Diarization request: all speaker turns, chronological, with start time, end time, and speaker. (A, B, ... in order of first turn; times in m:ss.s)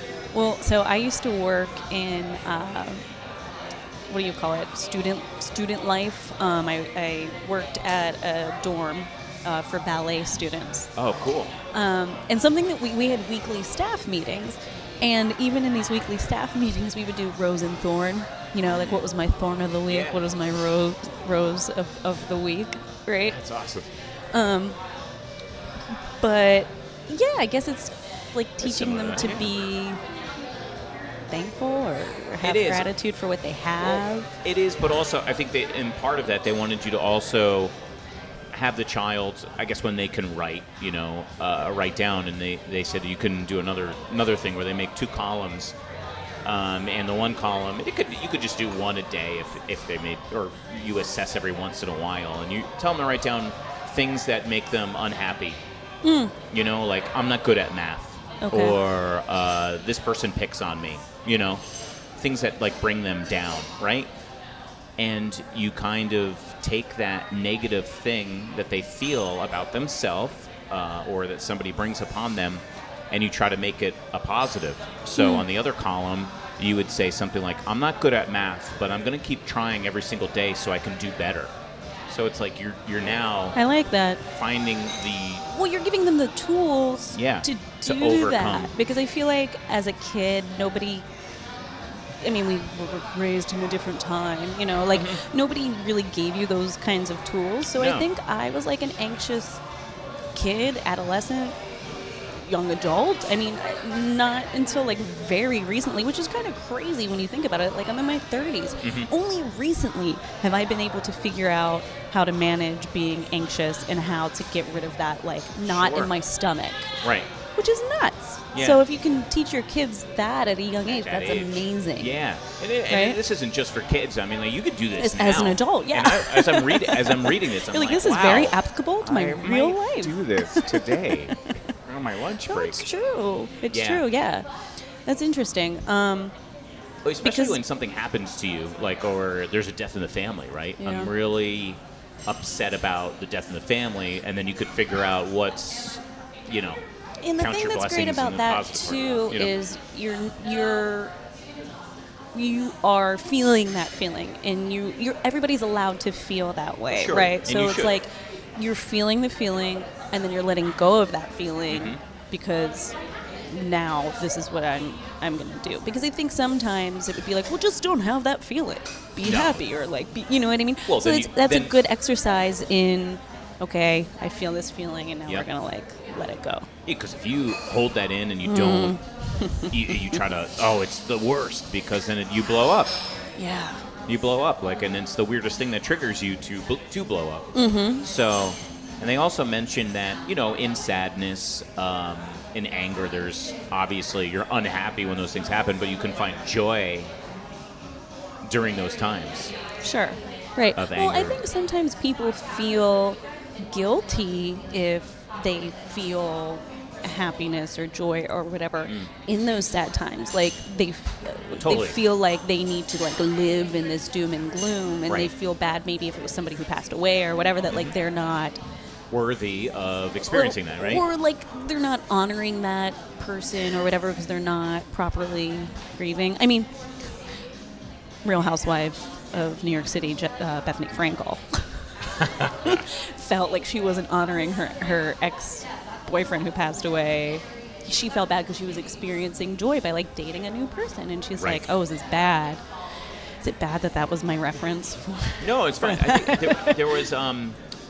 0:00.3-0:03.1 A
0:04.1-0:10.9 A
0:11.0-0:11.6 B
0:11.7-0:23.4 A
0:18.7-0:19.1 B
0:19.9-0:20.2 B
0:23.2-0:23.9 B
0:24.3-0:24.8 A
0:26.2-0:30.0 A
0:28.6-0:29.5 B
0:31.3-0:34.4 A
0:32.4-0:32.9 B
0:33.8-0:37.8 B
0:38.5-0:45.8 B
0:46.4-0:55.6 B
0:56.0-0:56.3 A
0:56.5-1:01.6 B
0:58.4-0:58.8 A
1:02.2-1:04.1 B
1:05.0-1:21.5 B
1:15.2-1:15.5 A
1:22.1-1:23.6 B
1:23.6-1:24.2 A
1:24.3-1:25.5 B
1:25.5-1:31.1 A
1:27.1-1:28.7 B
1:32.2-1:39.6 A
1:34.9-1:35.2 B
1:37.8-1:38.1 B
1:40.3-1:41.6 A
1:42.4-2:02.2 A
1:48.8-1:49.1 B
1:55.7-1:56.2 B
1:57.0-1:57.3 B
1:58.5-1:58.8 B
2:00.9-2:12.9 B
2:02.9-2:03.2 A
2:05.0-2:11.6 A
2:12.5-2:14.5 A
2:13.7-2:14.1 B
2:15.0-2:16.3 A
2:17.0-2:26.8 B
2:17.2-2:17.6 A
2:20.8-2:21.1 A
2:27.2-2:31.1 A
2:27.4-2:29.6 B
2:32.3-2:43.0 A
2:36.9-2:38.0 B
2:41.7-2:42.0 B
2:43.5-2:56.7 A
2:49.2-2:49.6 B
2:50.9-2:51.8 B
2:56.9-2:59.0 B
2:58.4-3:00.2 A
2:59.6-3:02.9 B
3:03.4-3:03.9 A
3:04.1-3:17.1 B
3:07.6-3:08.0 A
3:18.4-3:19.5 B
3:19.8-3:38.6 A
3:20.8-3:21.4 B
3:28.8-3:29.1 B
3:31.6-3:32.0 B
3:37.7-3:38.0 B
3:39.1-3:41.1 B
3:40.2-3:46.7 A
3:48.2-4:02.6 A
3:52.2-3:52.8 B
4:01.4-4:01.7 B
4:03.4-4:07.0 A
4:05.4-4:07.6 B